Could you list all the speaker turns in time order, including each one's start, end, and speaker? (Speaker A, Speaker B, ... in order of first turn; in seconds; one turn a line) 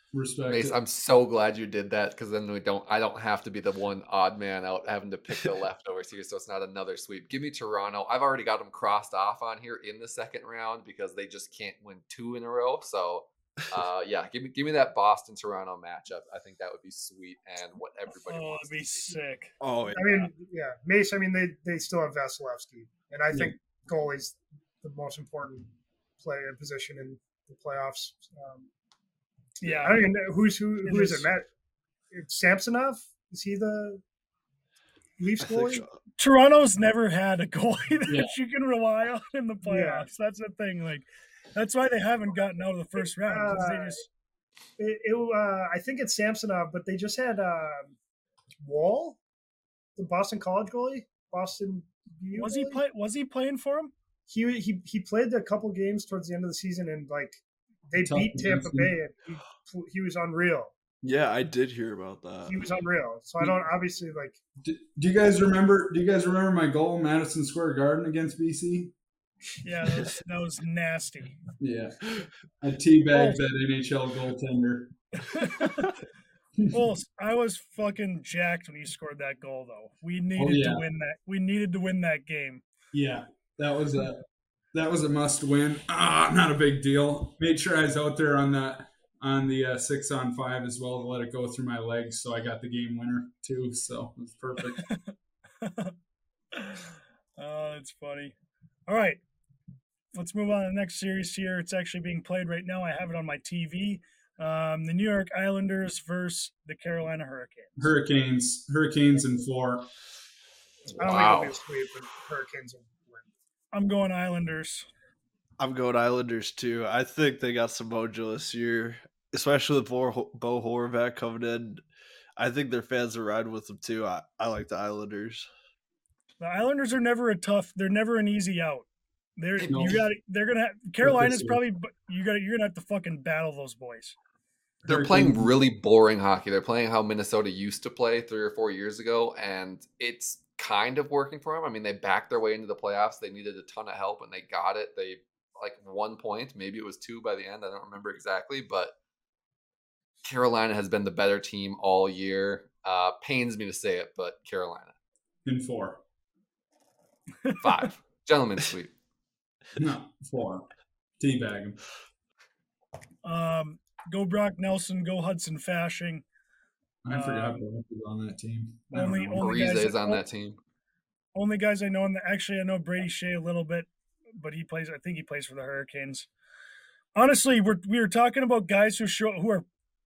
Speaker A: 0.1-0.8
Speaker B: 0.5-19.1
Speaker C: 18.2-19.5
Speaker D: 19.6-20.3
Speaker E: 19.9-28.7
Speaker C: 29.6-30.1
Speaker E: 29.6-31.5
Speaker C: 30.9-31.3
Speaker E: 32.1-34.0
Speaker E: 35.2-35.8
Speaker D: 35.4-36.0
Speaker C: 36.2-44.1
Speaker E: 39.6-40.1
Speaker E: 43.0-44.0
Speaker E: 44.8-48.0
Speaker E: 48.6-49.2
Speaker E: 50.0-52.8
Speaker C: 52.3-53.9
Speaker E: 54.3-60.7
Speaker A: 58.0-58.9
Speaker D: 61.0-62.6
Speaker E: 62.5-64.4
Speaker A: 64.6-68.9
Speaker C: 69.6-71.4
Speaker A: 71.6-72.0
Speaker A: 72.6-75.0
Speaker C: 73.1-73.4
Speaker C: 75.3-75.9
Speaker C: 76.7-82.6
Speaker A: 80.4-80.8
Speaker A: 82.9-94.9
Speaker C: 94.8-96.0
Speaker C: 96.5-98.3
Speaker C: 98.9-99.2
Speaker C: 100.2-107.9
Speaker A: 107.8-109.9
Speaker B: 110.9-111.6
Speaker E: 111.0-113.3
Speaker C: 113.7-114.9
Speaker D: 115.6-121.8
Speaker D: 122.4-125.5
Speaker C: 126.4-128.9
Speaker C: 129.4-134.2
Speaker B: 129.6-130.0
Speaker A: 129.7-130.0
Speaker A: 131.0-131.6
Speaker A: 134.8-135.5
Speaker B: 134.9-148.9
Speaker B: 150.2-154.9
Speaker A: 155.4-156.0
Speaker C: 157.4-157.9
Speaker B: 157.6-158.9
Speaker A: 159.8-160.7
Speaker A: 161.2-161.8
Speaker C: 163.2-166.2
Speaker A: 167.0-169.5
Speaker C: 167.1-167.6
Speaker C: 168.9-170.2
Speaker B: 169.4-170.6
Speaker C: 171.3-176.3
Speaker C: 177.2-179.7